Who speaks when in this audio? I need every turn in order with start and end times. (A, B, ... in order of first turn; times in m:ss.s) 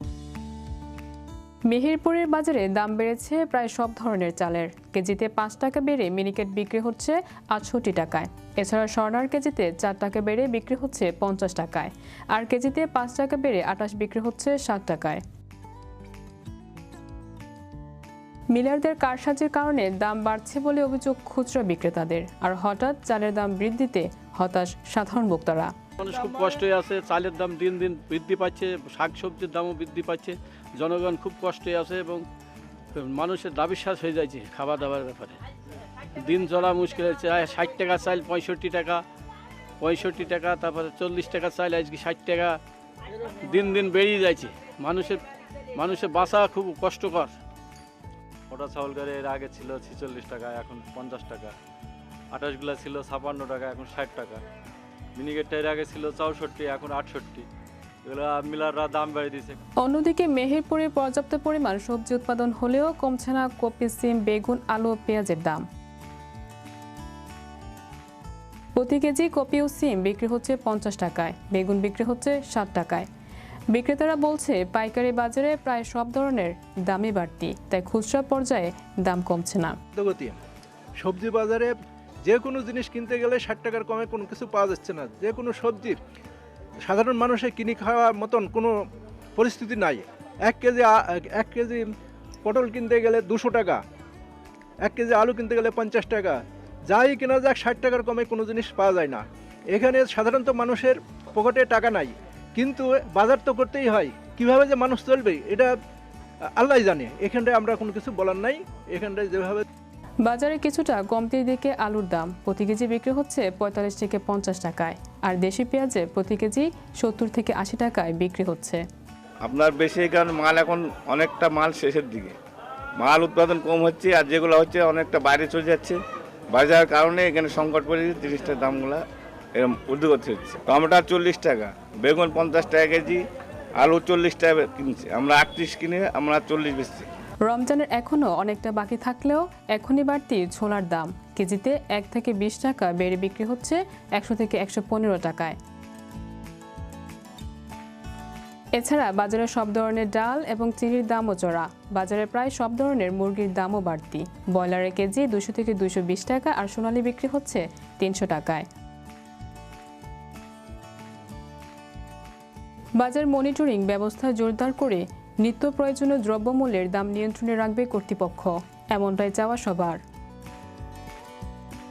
0:01.7-0:15.2 A
0:18.5-0:25.8 A
0:26.0-0:32.2 B
0:33.0-0:35.4 B
0:36.2-0:39.0 B
0:39.8-0:42.6 B
0:43.5-0:45.2 B
0:45.8-0:47.4 B
0:48.5-0:51.6 C
0:52.3-0:54.4 C
0:55.2-0:57.5 C
0:58.0-0:59.6 C
0:59.8-1:05.7 A
1:08.8-1:13.1 A
1:13.7-1:19.8 A
1:20.0-1:20.4 D
1:21.0-1:21.7 D
1:22.3-1:26.0 D
1:26.9-1:28.7 D
1:29.4-1:31.9 D
1:32.4-1:33.8 D
1:34.8-1:45.7 D
1:46.6-1:49.6 D
1:50.2-1:58.8 A
1:59.4-2:02.4 E
2:03.0-2:06.0 E
2:06.5-2:09.0 E
2:09.6-2:13.2 E
2:13.8-2:17.1 E
2:17.4-2:25.6 A
2:28.8-2:38.7 A
2:43.0-2:50.0 A